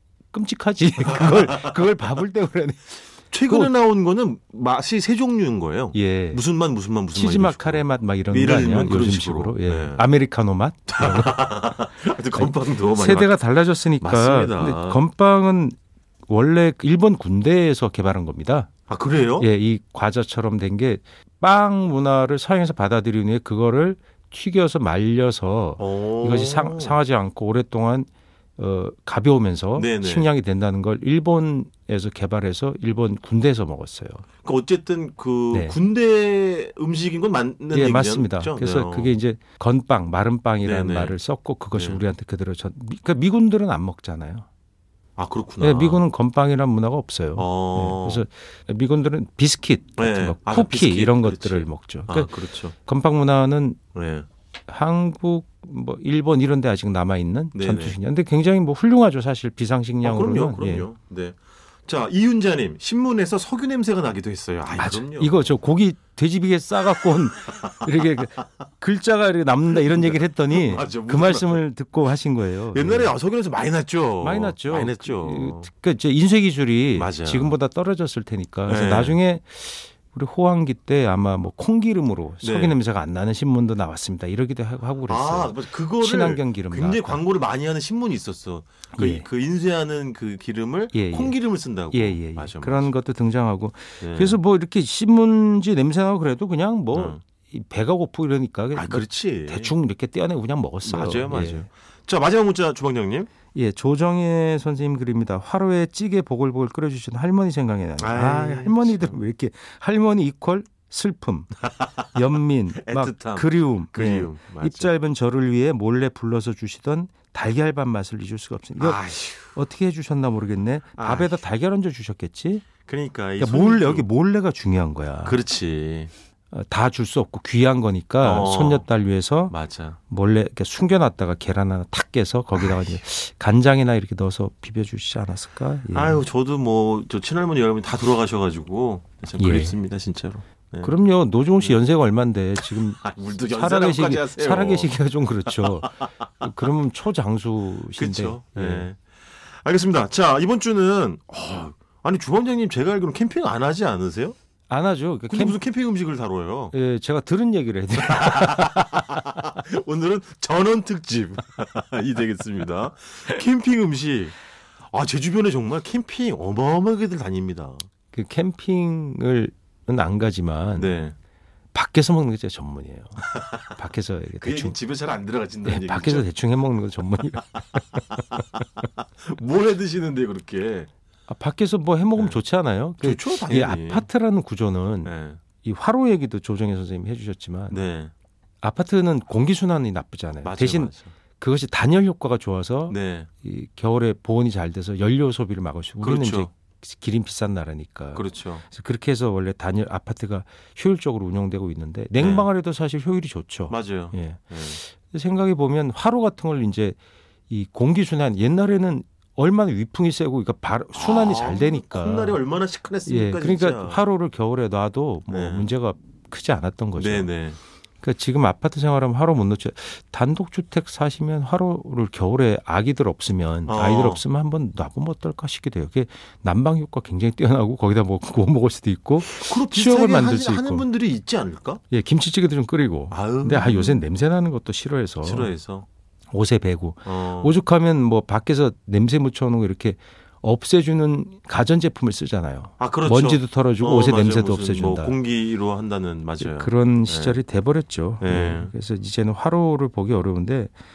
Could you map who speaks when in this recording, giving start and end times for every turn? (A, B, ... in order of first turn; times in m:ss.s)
0:00.3-0:03.7 A
0:01.0-0:01.8 B
0:03.3-0:10.0 B
0:05.9-0:06.4 A
0:07.1-0:11.5 A
0:10.9-0:13.4 B
0:12.3-0:18.7 A
0:14.0-0:15.0 B
0:18.9-0:19.5 B
0:19.4-0:34.2 A
0:25.8-0:27.0 B
0:29.8-0:30.3 B
0:34.4-0:39.2 B
0:35.5-0:35.8 A
0:37.7-0:44.4 A
0:40.6-0:41.2 B
0:41.7-0:42.0 B
0:45.2-0:46.0 B
0:45.6-0:53.8 A
0:47.4-0:48.2 B
0:50.0-0:52.7 B
0:53.9-0:54.3 B
0:54.7-1:00.9 A
0:57.5-0:58.0 B
1:00.0-1:05.5 B
1:04.7-1:13.1 A
1:07.4-1:08.2 B
1:09.7-1:11.6 B
1:12.7-1:15.7 B
1:14.2-1:27.2 A
1:16.9-1:17.6 B
1:18.7-1:19.2 B
1:22.4-1:22.8 B
1:25.1-1:32.9 B
1:28.9-1:29.2 A
1:30.9-1:31.4 A
1:31.9-1:41.7 A
1:34.0-1:34.4 B
1:36.9-1:37.2 B
1:38.7-1:39.7 B
1:40.8-1:43.3 B
1:43.5-2:02.6 A
1:48.0-1:49.2 B
1:51.7-1:52.2 B
1:52.7-1:54.9 B
1:58.8-1:59.6 B
2:01.0-2:01.4 B
2:02.8-2:04.0 B
2:03.4-2:05.4 A
2:05.2-2:06.1 B
2:06.5-2:09.5 A
2:08.2-2:08.8 B
2:09.5-2:10.0 B
2:10.1-2:16.2 A
2:12.5-2:13.0 B
2:15.9-2:21.0 B
2:19.4-2:19.8 A
2:20.8-2:28.9 A
2:22.7-2:26.1 B
2:28.0-2:34.3 B
2:34.7-2:35.6 A
2:35.3-2:36.7 B
2:36.7-2:39.2 A
2:38.0-2:44.4 B
2:44.9-2:47.8 B
2:48.1-2:50.9 A
2:50.8-2:51.1 B
2:51.7-2:54.8 A
2:53.3-2:53.7 B
2:54.4-2:56.3 B
2:55.6-2:58.0 A
2:58.1-3:00.9 B
3:01.3-3:07.8 A
3:03.0-3:04.1 B
3:05.0-3:05.4 B
3:07.7-3:08.1 B
3:08.6-3:27.0 A
3:10.4-3:11.1 B
3:12.9-3:13.3 B
3:16.0-3:16.5 B
3:18.1-3:18.6 B
3:22.2-3:22.5 B
3:23.7-3:24.8 B
3:27.5-3:32.4 A
3:30.9-3:34.0 B
3:33.1-3:37.3 A
3:35.3-3:35.7 B
3:37.0-3:37.6 B
3:38.0-3:50.8 A
3:43.7-3:44.2 B
3:49.2-3:51.8 B
3:51.9-3:55.5 A
3:53.1-3:54.0 B
3:55.2-3:55.8 B
3:56.3-4:05.2 A
3:57.0-3:57.6 B
4:02.8-4:07.4 B
4:06.4-4:10.7 A
4:08.2-4:08.7 B